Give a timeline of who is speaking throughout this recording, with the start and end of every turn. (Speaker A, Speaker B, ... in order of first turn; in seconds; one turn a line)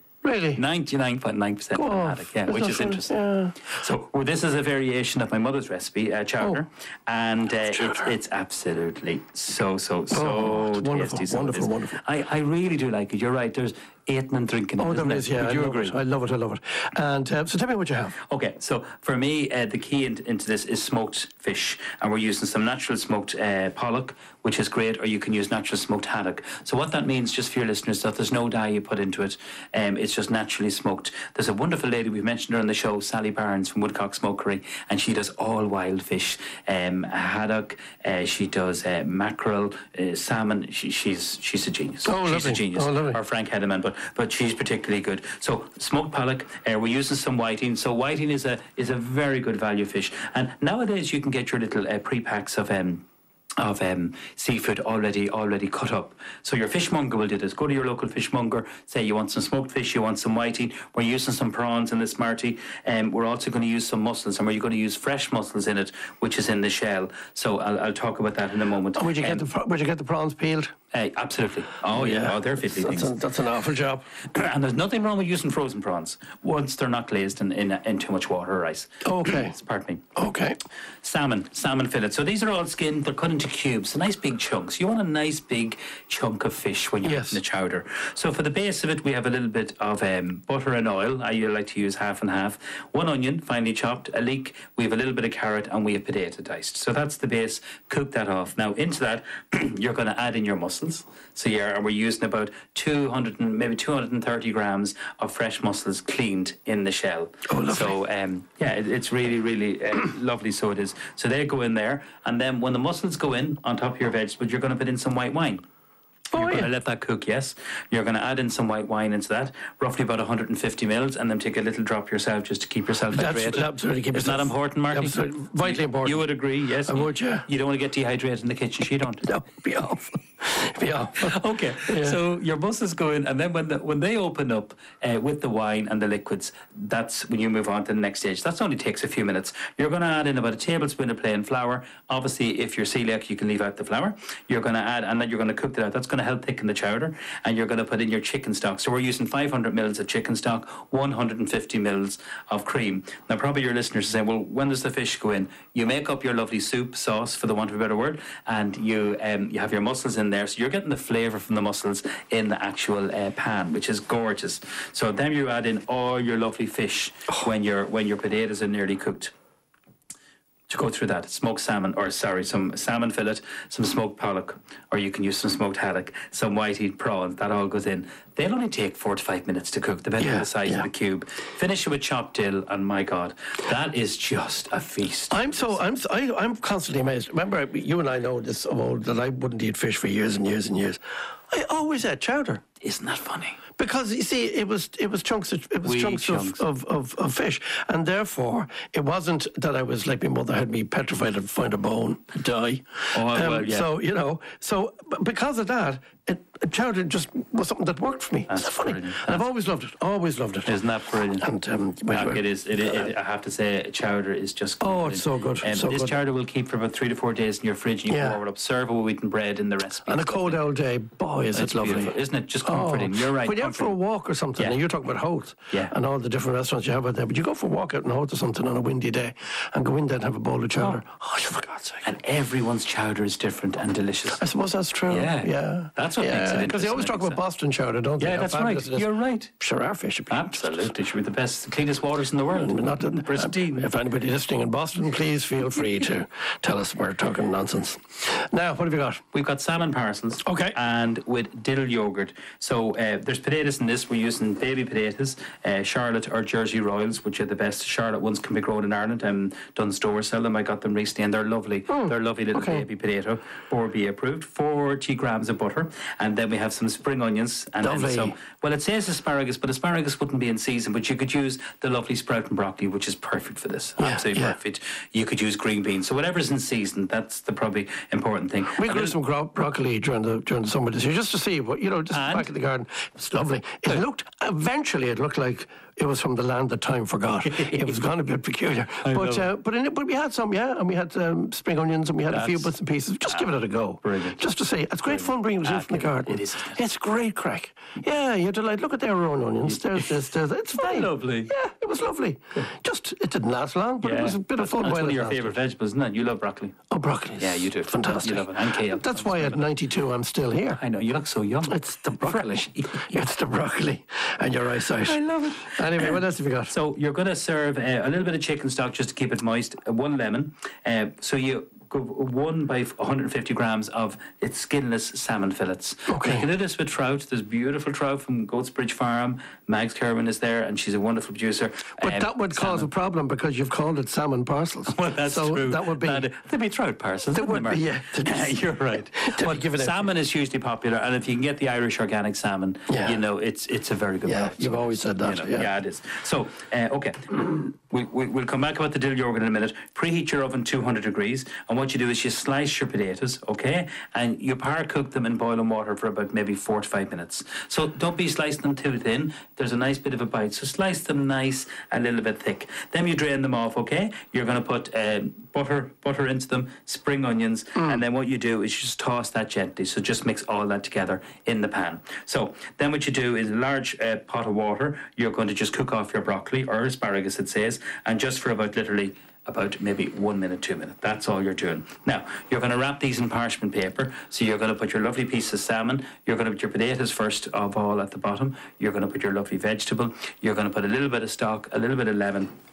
Speaker A: 0.2-0.6
Speaker B: 0.6-16.0
Speaker A: 1.8-3.6
Speaker A: 7.7-8.1
Speaker A: 10.1-12.0
Speaker A: 14.8-18.2
Speaker B: 18.3-53.0
Speaker A: 42.0-43.2
Speaker B: 53.6-69.4
Speaker A: 69.0-70.7
Speaker B: 70.9-73.2
Speaker A: 71.9-74.0
Speaker B: 74.3-80.0
Speaker A: 79.0-79.6
Speaker A: 80.2-80.6
Speaker B: 81.0-115.6
Speaker A: 87.0-87.4
Speaker A: 107.5-108.0
Speaker A: 116.3-116.7
Speaker B: 116.3-129.3
Speaker A: 123.1-126.3
Speaker A: 126.8-127.5
Speaker A: 129.2-132.2
Speaker B: 131.2-169.3
Speaker B: 170.7-185.8
Speaker A: 180.2-180.9
Speaker A: 185.3-192.6
Speaker B: 192.8-193.6
Speaker A: 193.8-210.8
Speaker B: 195.8-196.6
Speaker B: 203.1-203.9
Speaker B: 208.5-209.4
Speaker B: 210.7-211.5
Speaker A: 211.3-213.1
Speaker B: 212.1-220.7
Speaker A: 214.8-216.2
Speaker A: 218.1-218.4
Speaker A: 220.1-232.1
Speaker B: 221.5-224.0
Speaker B: 232.0-234.4
Speaker A: 234.3-240.7
Speaker B: 235.1-237.4
Speaker B: 238.2-239.5
Speaker B: 240.3-243.9
Speaker A: 242.5-249.2
Speaker B: 249.3-279.2
Speaker A: 250.4-250.8
Speaker A: 261.9-262.9
Speaker A: 267.8-268.4
Speaker A: 274.0-274.6
Speaker A: 278.8-305.6
Speaker B: 282.1-282.5
Speaker B: 287.5-287.9
Speaker B: 289.0-289.5
Speaker B: 292.3-292.7
Speaker B: 293.3-294.4
Speaker B: 295.1-296.8
Speaker B: 299.7-300.1
Speaker B: 300.8-301.5
Speaker B: 304.0-306.8
Speaker A: 306.9-310.8
Speaker B: 307.4-309.7
Speaker B: 310.8-313.1
Speaker A: 311.7-316.7
Speaker B: 314.9-332.9
Speaker A: 326.1-326.5
Speaker A: 332.0-336.3
Speaker B: 334.9-392.5
Speaker A: 337.3-340.1
Speaker A: 342.9-343.2
Speaker A: 344.2-345.7